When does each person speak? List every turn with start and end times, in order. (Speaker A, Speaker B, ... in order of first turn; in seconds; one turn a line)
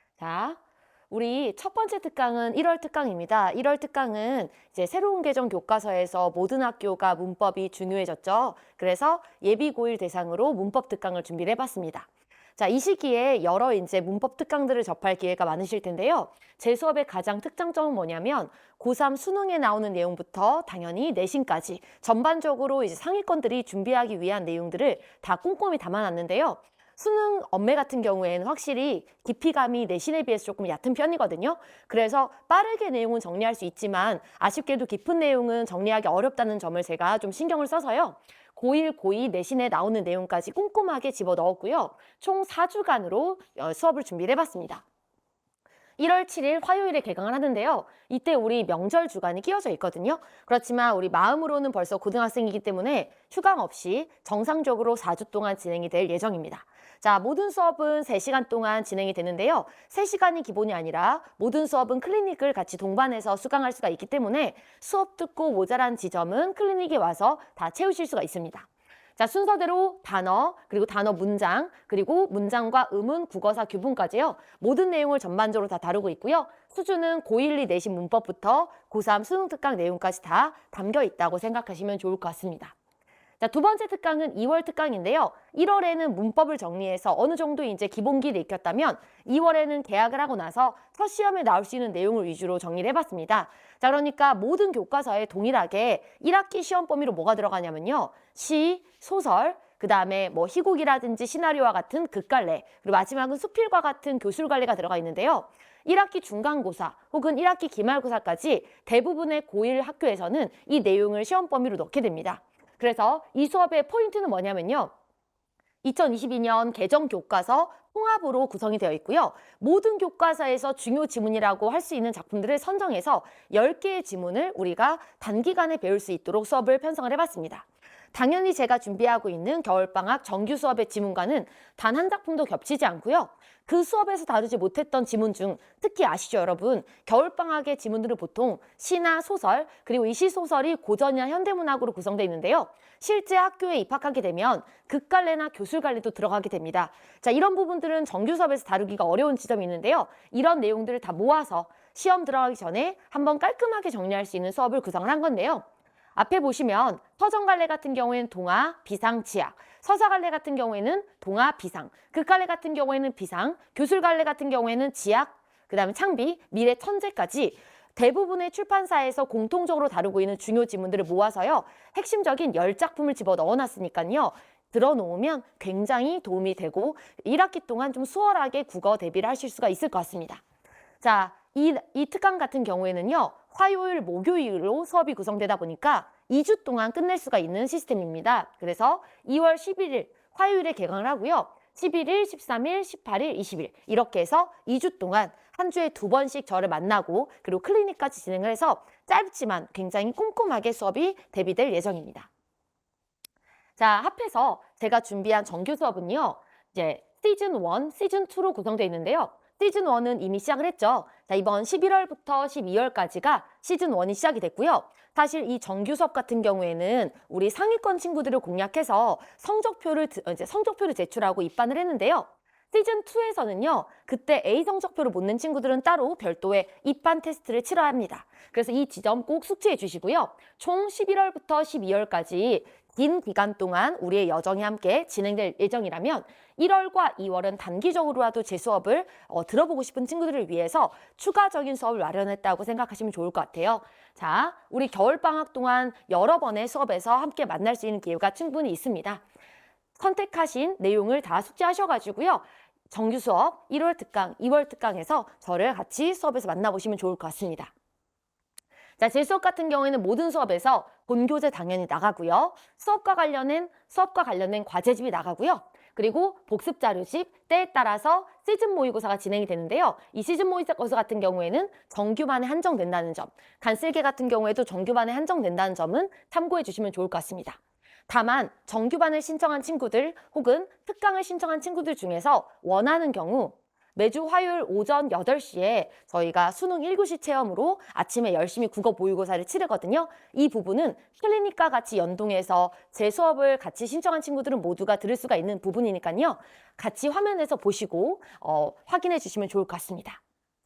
Speaker A: 0.2-0.6
Speaker A: 1.1-44.8
Speaker A: 46.0-82.7
Speaker A: 83.4-114.9
Speaker A: 115.8-180.4
Speaker A: 181.0-202.3
Speaker A: 203.8-249.2
Speaker A: 249.9-257.7
Speaker A: 259.0-300.2